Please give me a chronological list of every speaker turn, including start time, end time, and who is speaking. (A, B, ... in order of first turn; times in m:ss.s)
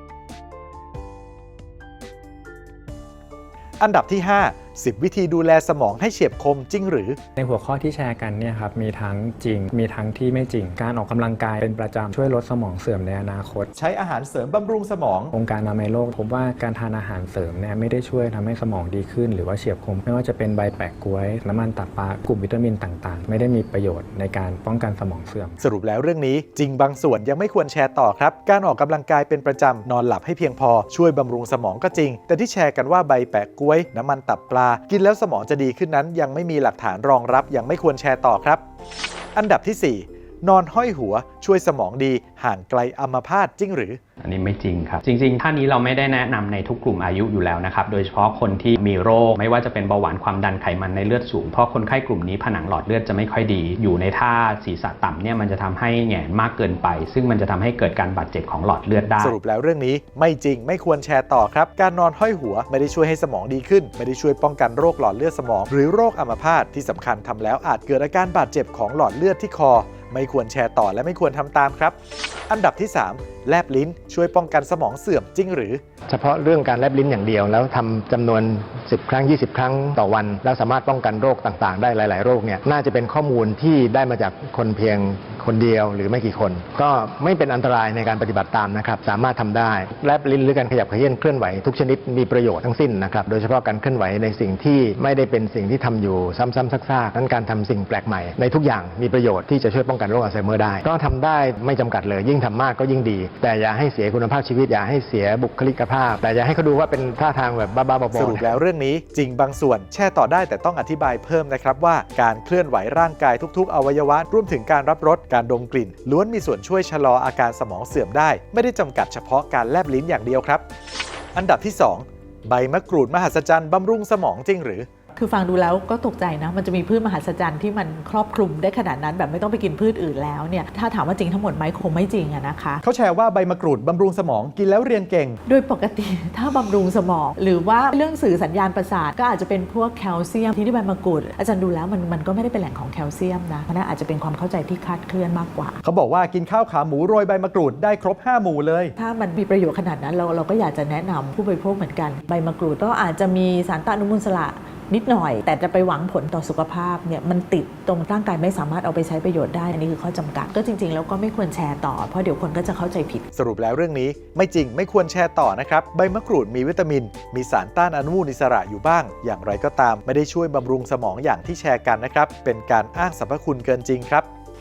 0:03.8-0:07.2 A
0:07.4-0:13.7 B
0:13.7-0:15.3 A
0:15.3-0:25.6 B
0:25.6-0:38.6 A
0:39.4-0:44.0 A
0:44.2-0:59.4 C
0:59.2-1:12.0 A
1:12.5-1:15.8 A
1:16.1-1:48.6 D
1:48.1-2:00.6 A
2:01.3-2:04.9 A
2:05.2-2:12.8 E
2:12.8-2:15.4 A
2:15.4-2:25.8 E
2:25.8-2:28.9 A
2:29.0-2:43.2 E
2:43.3-2:54.3 A